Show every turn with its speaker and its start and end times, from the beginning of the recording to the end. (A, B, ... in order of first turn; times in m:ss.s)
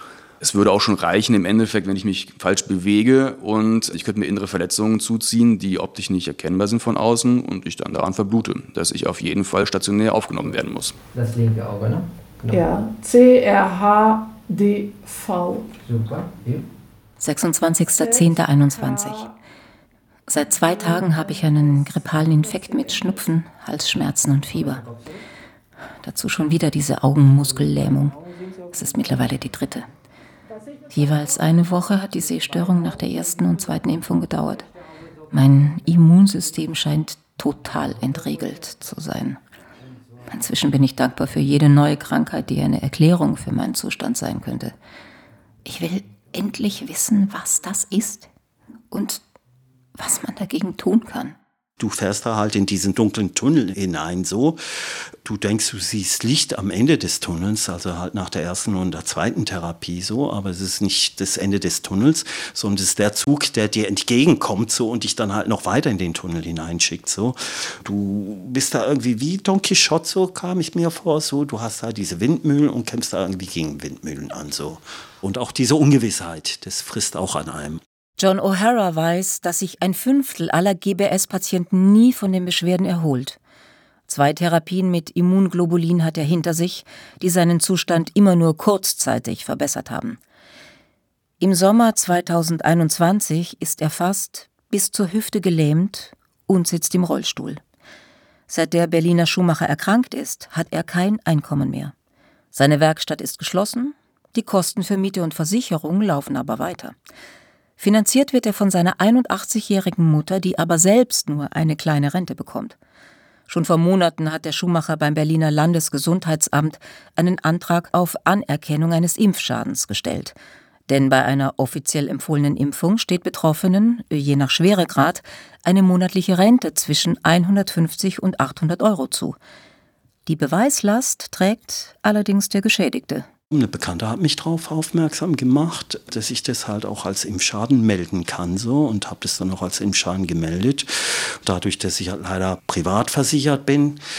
0:00.4-0:11.0 A
0:11.1-0:12.9 B
0:12.5-0:15.7 C
0:15.7-0:16.7 B
0:17.2-0:19.3 D
0:18.0-0:19.3 C
0:20.3-0:24.9 D
0:26.0-0:29.9 D
0:30.9-0:34.7 D
0:35.3-0:39.4 D
0:40.3-0:44.8 D
0:45.7-0:48.3 D
0:48.9-0:49.2 D
0:50.0-0:51.4 D
0:51.8-0:54.6 E
0:55.2-1:17.8 E
1:18.2-1:23.4 D
1:24.1-1:30.2 D
1:31.4-1:37.6 D
1:38.5-1:41.9 D
1:42.5-1:47.0 D
1:47.8-1:52.8 D
1:53.5-2:00.4 D
2:00.9-2:09.4 D
2:10.3-2:13.3 D
2:13.5-2:24.0 E